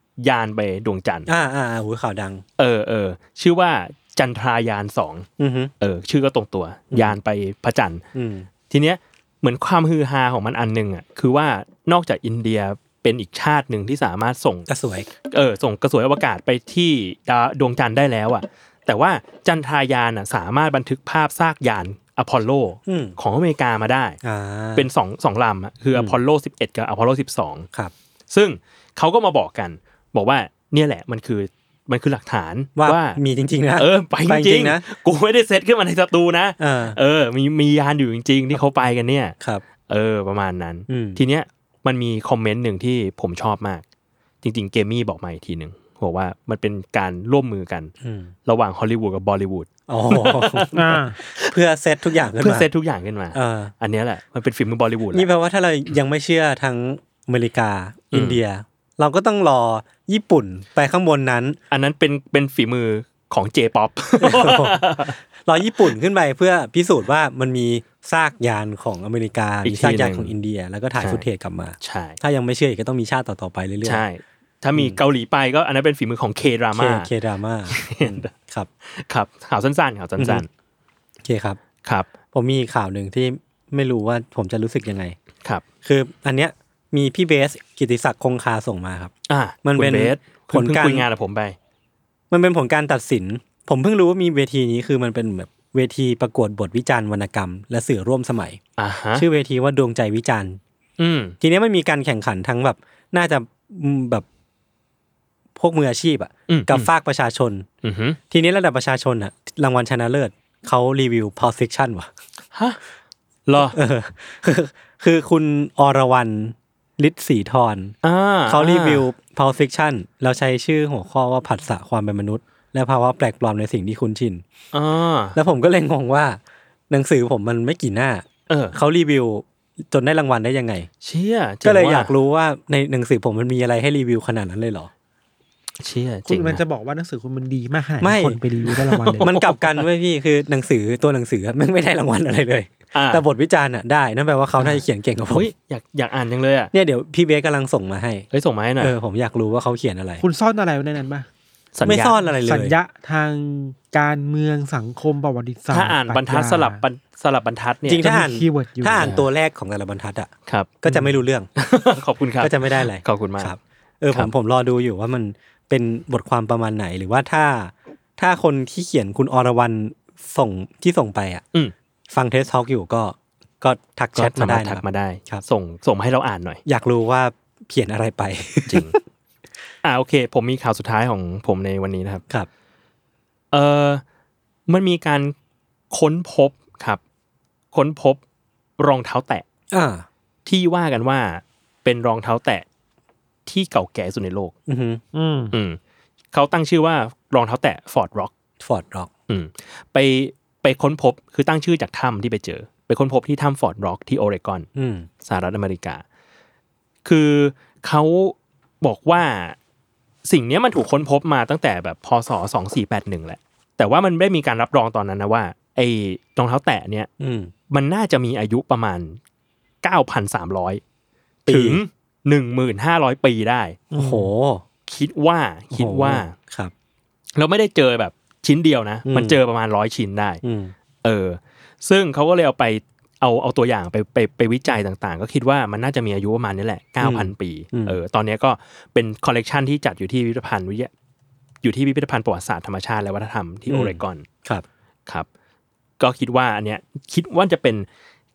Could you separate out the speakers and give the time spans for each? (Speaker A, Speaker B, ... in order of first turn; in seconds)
Speaker A: 0.2-1.3, 2.6-5.3, 5.8-8.0, 8.7-14.7, 15.3-24.2, 24.8-27.7, 28.3-33.2, 33.8-39.4, 39.9-43.8, 44.4-47.9, 48.5-50.8, 52.4-55.3, 58.1-58.4, 61.7-65.2, 69.6-70.3, 71.0-71.2, 71.8-72.2, 73.8-77.1, 77.7-78.3, 78.9-80.5, 89.3-91.6, 98.8-99.3, 101.0-101.3, 106.5-106.9, 107.8-108.2, 112.5-112.8, 113.5-113.8, 118.0-119.0, 124.7-125.4, 128.5-128.8, 131.0-132.1, 135.8-136.6, 138.8-139.8, 142.9-143.2, 145.3-146.7, 148.3-148.9, 151.8-152.2, 155.7-158.1, 159.0-159.2, 160.5-160.9, 161.6-163.6, 174.2-176.6, 178.7-178.9, 179.8-182.2, 183.5-184.0, 184.7-185.3, 185.9-187.0, 187.7-188.2, 188.8-189.4, 190.5-192.7, 193.5-194.5, 195.5-195.8, 196.3-198.3, 199.3-204.7, 205.2-206.0, 207.1-209.6, 210.3-217.1, 217.7-219.2, 219.8-220.8, 221.5-223.8, 224.9-226.3, 227.4-230.4, 231.0-240.9, 241.6-244.3, 246.0-247.9
Speaker B: 1.3-2.4, 5.4-5.7, 8.1-8.5, 14.7-15.1, 22.9-23.2, 24.2-24.9, 32.8-34.8, 36.6-37.0, 40.9-41.2, 48.0-48.3, 49.9-52.7, 53.3-53.7, 55.1-61.6, 64.2-74.0, 76.7-78.7, 80.2-80.4, 81.2-81.6, 82.3-85.2, 85.8-89.1, 89.6-91.1, 92.3-98.6, 99.2-100.6, 101.4-104.2, 105.6-107.7, 108.3-112.1, 113.6-117.9, 118.5-124.5, 125.3-130.9, 131.6-134.9, 138.0-138.4, 139.2-145.5, 146.7-148.3, 148.8-150.2, 151.8-152.8, 157.9-160.3, 160.8-161.5, 162.4-171.4, 172.1-175.4, 176.7-179.0, 189.7-190.1, 194.7-195.0, 198.6-199.1, 204.8-205.1, 217.2-217.5, 221.5-221.8, 223.9-224.6, 225.7-226.7, 229.1-229.4, 230.4-230.7, 237.0-238.0, 243.7-244.7
Speaker C: 50.7-51.2, 136.3-139.3, 150.2-151.3, 152.4-156.8, 158.0-159.1, 195.1-195.5, 223.9-224.3